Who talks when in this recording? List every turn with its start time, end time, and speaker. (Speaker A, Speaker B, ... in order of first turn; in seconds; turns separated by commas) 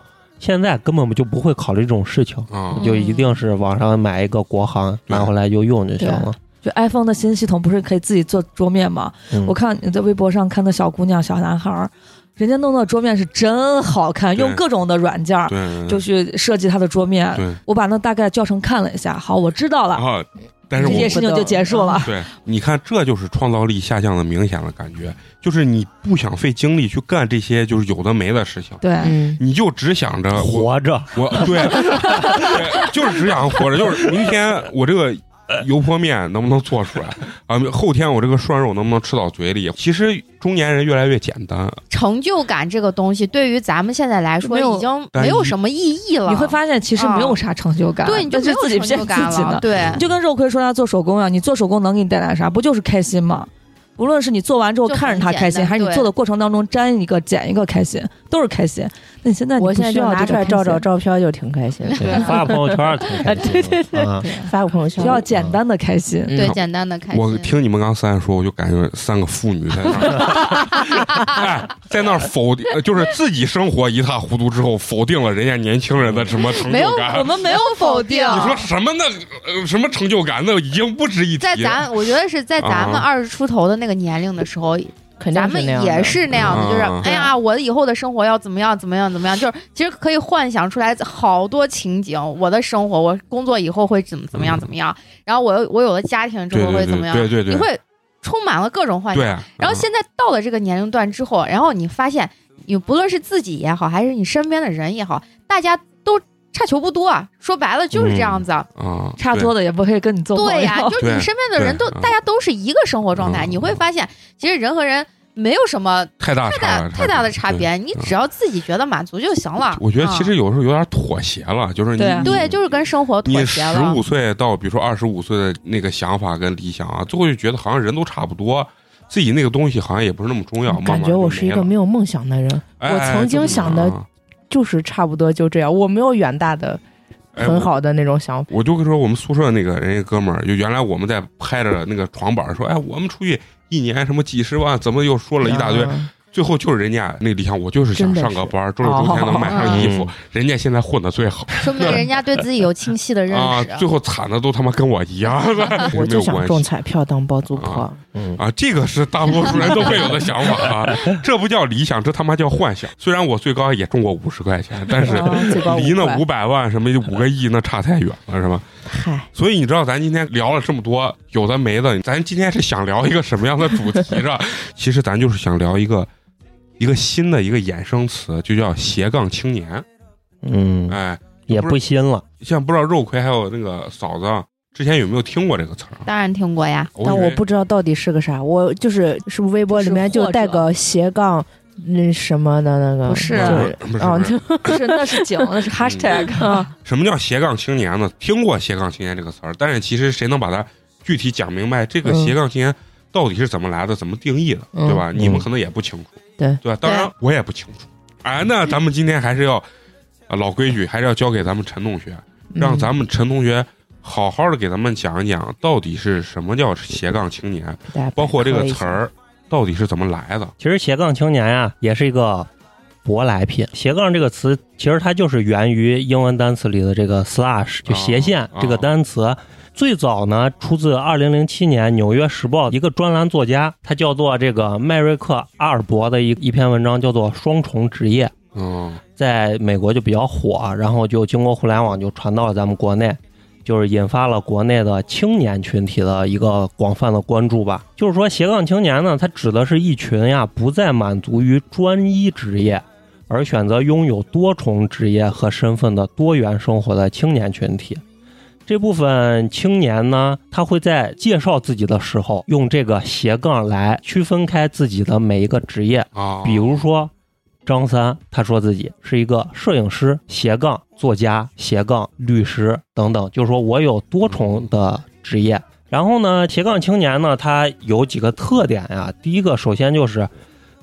Speaker A: 0.4-6.4, Speaker B: 2.5-2.9, Speaker C: 2.8-3.3, Speaker D: 2.9-3.1, Speaker D: 6.0-20.1, Speaker B: 14.4-14.6, Speaker B: 15.5-16.0, Speaker B: 17.3-17.6, Speaker B: 19.9-21.2, Speaker E: 20.8-22.0, Speaker D: 20.8-22.1, Speaker B: 22.0-28.8, Speaker D: 28.8-29.1, Speaker E: 29.0-29.4, Speaker B: 29.4-41.8, Speaker A: 30.3-34.3, Speaker C: 41.9-47.4, Speaker D: 44.4-44.9, Speaker B: 45.1-45.5, Speaker D: 46.3-60.9, Speaker C: 48.0-50.0, Speaker B: 49.7-50.0, Speaker C: 54.9-56.1, Speaker E: 59.6-62.7, Speaker A: 62.0-64.3, Speaker E: 63.4-63.8, Speaker D: 64.1-66.4, Speaker E: 64.3-65.3, Speaker A: 65.3-65.6, Speaker E: 66.3-66.6, Speaker C: 66.3-67.5, Speaker B: 67.1-77.4, Speaker C: 76.4-78.7, Speaker D: 77.1-78.6, Speaker B: 78.3-81.9, Speaker C: 81.4-108.7, Speaker B: 82.6-83.1, Speaker E: 85.2-86.5, Speaker B: 86.3-87.1, Speaker E: 87.0-87.3, Speaker B: 94.3-94.7, Speaker B: 96.5-97.7, Speaker B: 99.1-99.9, Speaker A: 107.9-108.4, Speaker B: 108.8-109.5, Speaker D: 109.2-111.0, Speaker C: 110.3-120.3, Speaker B: 111.0-112.1, Speaker B: 113.2-113.8, Speaker B: 116.2-118.1, Speaker B: 119.7-131.7, Speaker D: 122.0-122.4, Speaker C: 122.2-124.0, Speaker E: 130.7-133.9, Speaker B: 132.8-134.1, Speaker E: 134.5-136.8, Speaker B: 137.3-137.7, Speaker E: 137.4-138.5, Speaker B: 138.5-152.1, Speaker E: 145.4-146.1, Speaker E: 147.9-149.8, Speaker C: 149.5-149.9, Speaker A: 149.7-150.1, Speaker C: 151.6-153.9, Speaker B: 153.3-156.7, Speaker E: 155.9-158.0, Speaker B: 157.6-168.7, Speaker A: 158.1-158.4, Speaker A: 160.7-161.2, Speaker E: 165.0-166.2, Speaker D: 165.1-165.5, Speaker E: 168.9-169.3, Speaker B: 169.3-176.1, Speaker B: 176.8-179.8, Speaker A: 180.4-182.2, Speaker B: 180.9-181.8, Speaker B: 182.4-186.1, Speaker C: 186.1-186.9, Speaker B: 187.0-187.4, Speaker E: 187.0-195.4, Speaker D: 189.7-190.7, Speaker D: 193.1-193.7, Speaker B: 193.3-194.5, Speaker D: 194.7-196.7, Speaker B: 195.8-196.3, Speaker E: 196.4-196.7, Speaker B: 196.8-209.7, Speaker E: 202.1-202.3, Speaker E: 204.7-205.2, Speaker A: 205.2-205.5, Speaker C: 206.8-207.1, Speaker B: 210.3-220.5, Speaker E: 212.6-212.9, Speaker E: 217.9-219.0, Speaker A: 220.6-222.5, Speaker A: 223.0-238.3, Speaker B: 227.9-228.9, Speaker B: 238.5-239.0, Speaker A: 239.2-258.0, Speaker A: 258.7-267.1, Speaker B: 266.1-266.8, Speaker A: 267.6-280.3, Speaker B: 274.3-274.7